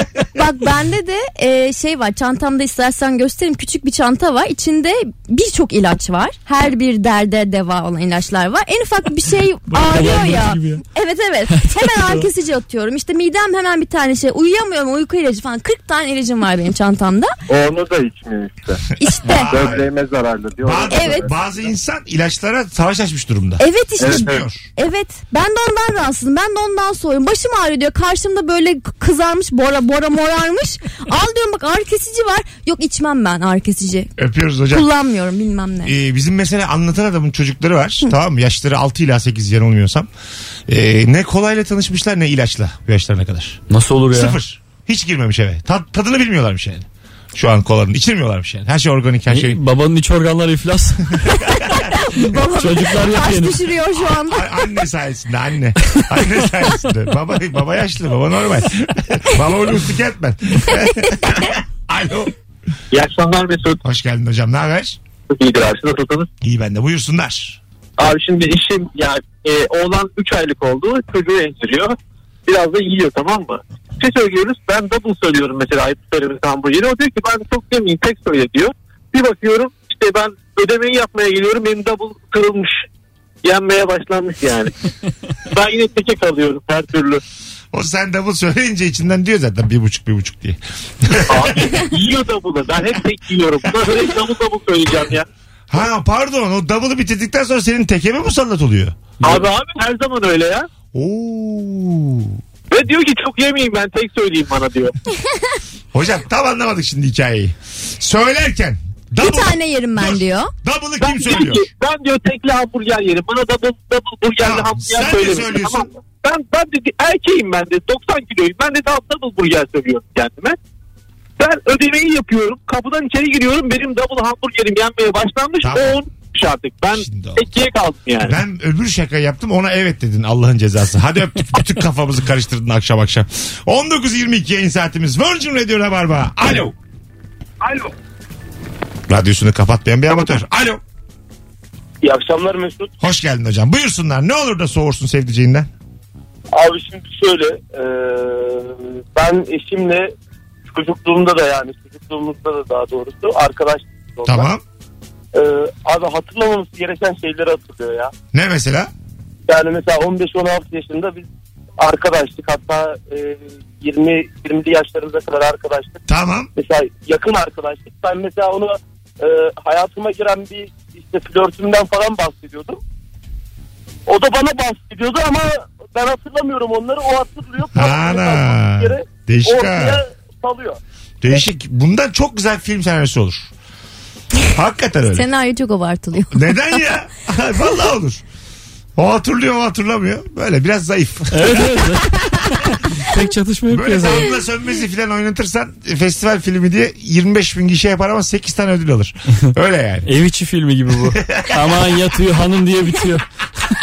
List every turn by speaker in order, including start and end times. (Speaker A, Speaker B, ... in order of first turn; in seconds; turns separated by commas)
Speaker A: 0.4-17.3, Speaker B: 9.7-10.8, Speaker B: 11.5-12.3, Speaker C: 17.5-18.8, Speaker A: 19.0-19.5, Speaker D: 19.3-19.9, Speaker C: 19.4-21.5, Speaker D: 20.6-24.7, Speaker A: 20.9-21.3, Speaker A: 23.6-34.1, Speaker C: 24.0-24.4, Speaker D: 34.2-34.9, Speaker A: 34.7-35.9, Speaker D: 35.9-40.1, Speaker D: 40.7-49.6, Speaker B: 43.7-44.4, Speaker B: 49.3-51.2, Speaker A: 51.5-54.5, Speaker B: 52.4-53.6, Speaker D: 54.2-62.3, Speaker E: 62.9-63.8, Speaker D: 63.8-65.0, Speaker E: 65.3-66.3, Speaker D: 66.4-67.6, Speaker E: 68.0-72.0, Speaker E: 72.5-82.9, Speaker E: 83.4-84.7, Speaker E: 85.5-87.2, Speaker D: 87.7-91.8, Speaker E: 91.3-95.3, Speaker D: 93.7-94.0, Speaker D: 95.7-99.4, Speaker E: 99.2-100.7, Speaker D: 100.9-102.4, Speaker E: 102.7-104.9, Speaker D: 105.9-111.7, Speaker A: 109.2-110.5, Speaker E: 111.0-120.6, Speaker D: 114.4-115.9, Speaker E: 121.4-128.4, Speaker D: 125.6-126.0, Speaker D: 126.9-127.5, Speaker D: 128.2-136.8, Speaker D: 139.1-140.8, Speaker F: 142.0-142.9, Speaker D: 143.0-145.7, Speaker F: 146.5-150.1, Speaker F: 150.7-154.5, Speaker D: 154.3-154.6, Speaker F: 155.3-158.1, Speaker D: 158.3-158.9, Speaker F: 159.5-161.3, Speaker F: 161.8-166.0, Speaker D: 166.1-166.5, Speaker F: 166.6-172.8, Speaker F: 174.1-180.8, Speaker D: 177.7-180.0, Speaker D: 181.2-183.5, Speaker D: 184.5-185.3, Speaker A: 185.1-186.6, Speaker D: 186.3-188.2, Speaker D: 189.0-192.0, Speaker B: 191.3-194.3, Speaker D: 193.7-200.1, Speaker B: 200.1-203.2, Speaker D: 201.1-201.7